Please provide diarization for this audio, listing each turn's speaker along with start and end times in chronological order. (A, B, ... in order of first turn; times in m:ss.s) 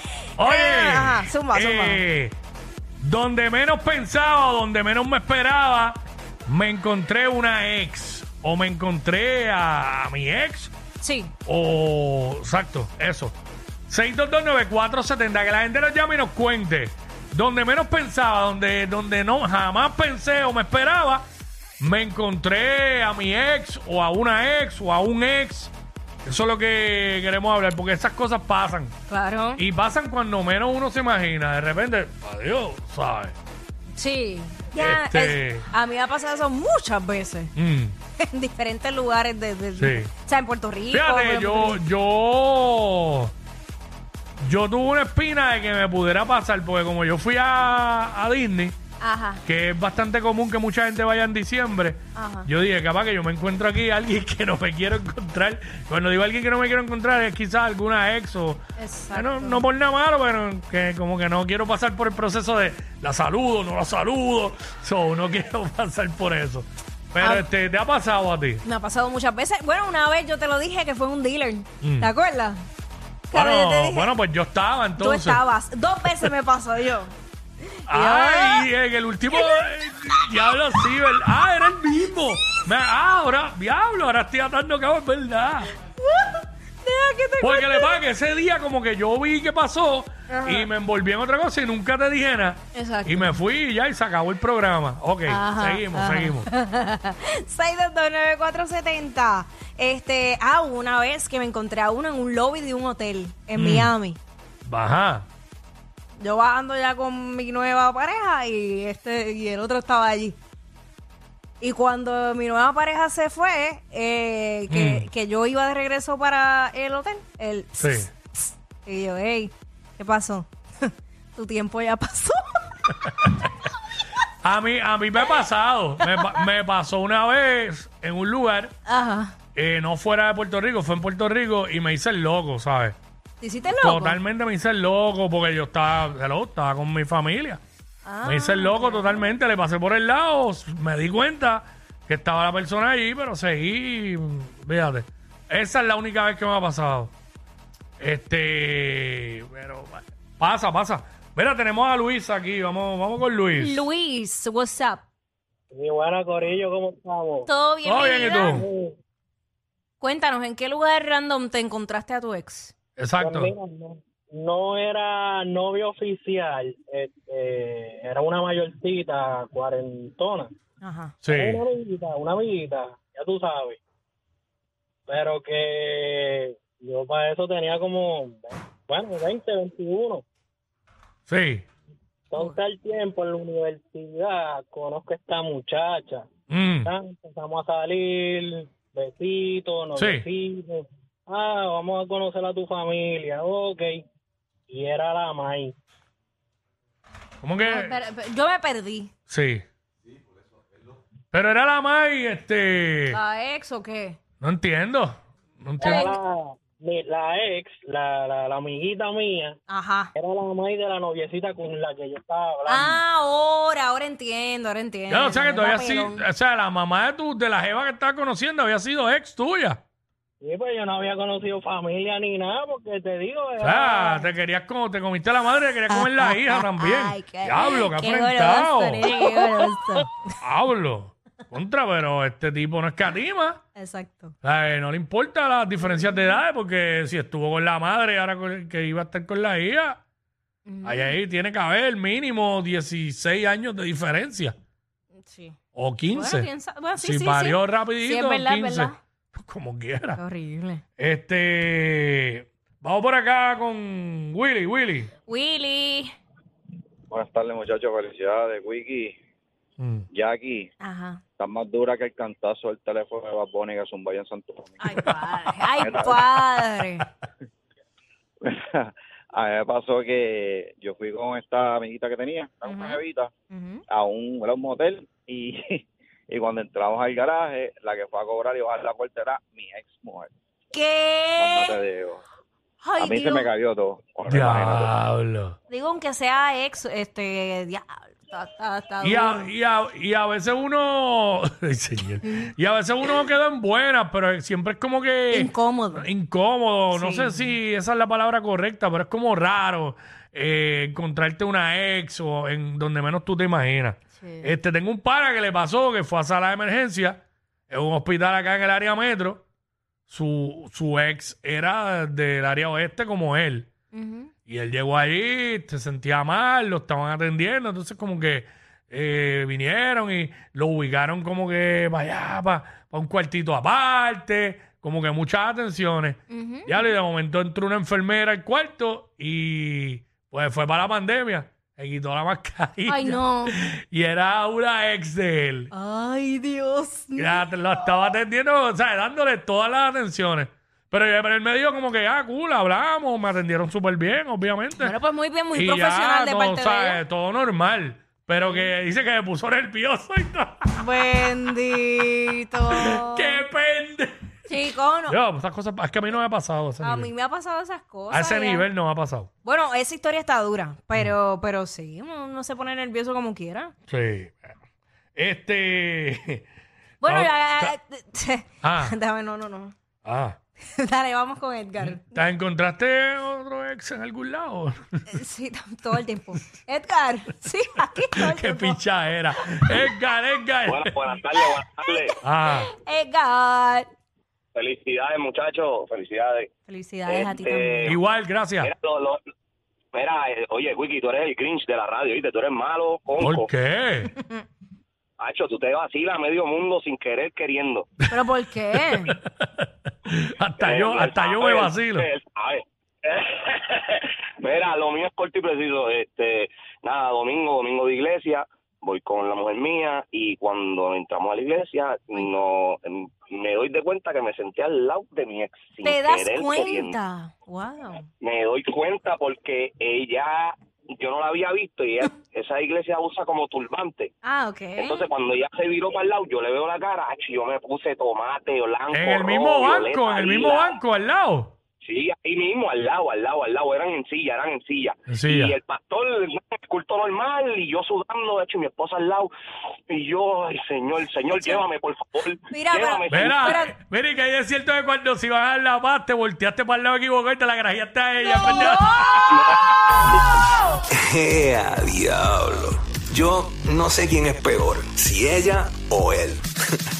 0:00.4-0:02.0 A
0:00.4-0:02.4 B
0:03.0-0:10.7 B
0:11.0-0:11.3 A
0:11.5-0:13.4 B
0:13.9-0:21.3 B
0:21.8-0:25.7 B
0:26.2-0:28.9 B
0:29.1-0:29.6 A
0:29.6-0:33.4 B
0:34.0-0:37.5 A
0:34.7-0:35.7 B
0:37.6-0:38.0 B
0:38.2-0:41.8 A
0:39.8-0:40.1 B
0:40.9-0:43.3 B
0:44.4-0:48.8 B
0:49.0-0:49.4 A
0:49.4-1:08.6 B
0:52.2-0:52.5 A
0:58.8-0:59.7 A
1:07.2-1:07.4 A
1:08.6-1:12.6 A
1:11.8-1:12.1 B
1:13.3-1:14.1 A
1:13.3-1:15.4 B
1:15.0-1:17.1 A
1:16.0-1:16.3 B
1:17.8-1:18.7 A
1:17.9-1:25.7 B
1:19.3-1:20.9 A
1:26.0-1:28.0 A
1:27.4-1:36.5 B
1:30.3-1:30.7 A
1:32.7-1:33.4 A
1:35.3-1:44.2 A
1:43.5-1:43.9 B
1:44.6-1:45.3 B
1:46.2-1:50.4 A
1:51.6-2:02.6 A
1:54.7-1:55.1 B
1:57.8-1:58.1 B
2:03.0-2:03.5 B
2:04.4-2:08.7 B
2:08.9-2:09.4 A
2:09.5-2:13.0 B
2:13.4-2:14.2 A
2:13.7-2:17.6 B
2:18.0-2:19.3 A
2:18.2-2:27.1 B
2:28.0-2:33.9 B
2:33.6-2:35.0 A
2:35.7-2:37.5 C
2:37.4-2:38.6 A
2:37.8-2:38.7 B
2:38.4-2:38.9 C
2:40.0-2:42.7 A
2:43.0-2:43.5 B
2:43.2-2:50.5 C
2:50.8-2:51.2 A
2:51.2-2:51.6 B
2:51.3-2:53.8 C
2:55.1-3:00.2 C
3:01.3-3:01.7 B
3:02.3-3:06.2 C
3:06.5-3:06.9 B
3:06.8-3:14.0 C
3:09.9-3:10.3 B
3:14.7-3:15.8 C
3:17.4-3:18.0 B
3:17.6-3:19.1 A
3:19.3-3:19.6 B
3:21.3-3:23.2 B
3:23.1-3:24.2 A
3:24.4-3:26.1 B
3:25.8-3:29.5 C
3:25.8-3:26.2 A
3:29.7-3:30.1 A
3:30.1-3:33.0 C
3:32.7-3:36.2 A
3:35.1-3:39.8 B
3:40.4-3:44.3 C
3:43.6-3:49.1 B
3:45.9-3:50.1 A
3:50.4-3:53.6 B
3:53.8-3:54.3 A
3:54.4-4:00.0 B
4:00.7-4:01.2 A
4:00.8-4:04.6 B
4:05.2-4:05.6 A
4:05.7-4:10.2 B
4:06.1-4:09.0 A
4:10.2-4:10.8 A
4:11.0-4:15.1 B
4:15.2-4:16.1 A
4:17.1-4:19.1 D
4:19.8-4:20.0 B
4:20.1-4:20.7 D
4:20.8-4:21.2 A
4:21.4-4:24.9 D
4:24.8-4:27.1 A
4:25.0-4:25.6 B
4:25.8-4:26.2 D
4:28.4-4:33.3 D
4:32.6-4:33.8 A
4:33.9-4:40.3 D
4:40.7-4:41.8 A
4:41.4-4:42.2 D
4:42.8-4:43.5 A
4:43.0-4:44.9 D
4:44.3-4:45.6 B
4:45.7-4:49.5 A
4:49.0-5:09.4 B
4:52.2-4:52.5 A
4:55.3-4:56.1 A
4:56.9-4:57.5 A
5:04.2-5:04.5 A
5:10.1-5:13.7 B
5:13.9-5:14.3 A
5:14.5-5:35.7 B
5:26.3-5:26.9 A
5:32.9-5:33.6 A
5:35.7-5:37.9 A
5:37.2-5:44.9 B
5:44.8-5:47.0 A
5:45.5-5:50.8 B
5:50.8-5:53.4 A
5:52.7-5:54.3 B
5:54.5-5:55.2 A
5:55.1-5:57.1 B
5:56.8-5:58.7 A
5:58.1-5:59.3 B
5:59.4-6:03.7 A
6:03.9-6:04.6 B
6:05.2-6:06.5 B
6:07.0-6:09.7 A
6:07.0-6:07.8 B
6:08.6-6:09.0 B
6:10.0-6:10.4 B
6:10.7-6:12.2 A
6:11.8-6:15.2 B
6:15.1-6:18.8 A
6:18.1-6:21.0 B
6:20.6-6:22.2 E
6:21.9-6:23.9 A
6:22.2-6:22.7 B
6:24.6-6:26.5 E
6:26.7-6:28.0 A
6:27.1-6:28.0 E
6:27.9-6:28.7 B
6:28.6-6:29.2 E
6:29.9-6:33.5 E
6:33.2-6:34.1 B
6:34.2-6:34.4 A
6:35.2-6:37.9 E
6:38.1-6:39.1 A
6:38.8-6:42.1 B
6:40.6-6:57.0 E
6:55.8-6:58.1 A
6:58.2-7:04.1 E
7:04.2-7:05.1 A
7:04.8-7:10.8 E
7:08.9-7:11.5 B
7:11.8-7:19.3 E
7:15.1-7:15.6 B
7:19.9-7:23.6 E
7:21.3-7:21.6 A
7:22.5-7:23.7 A
7:23.1-7:29.3 B
7:28.2-7:29.2 A
7:29.3-7:30.2 E
7:30.9-7:36.5 F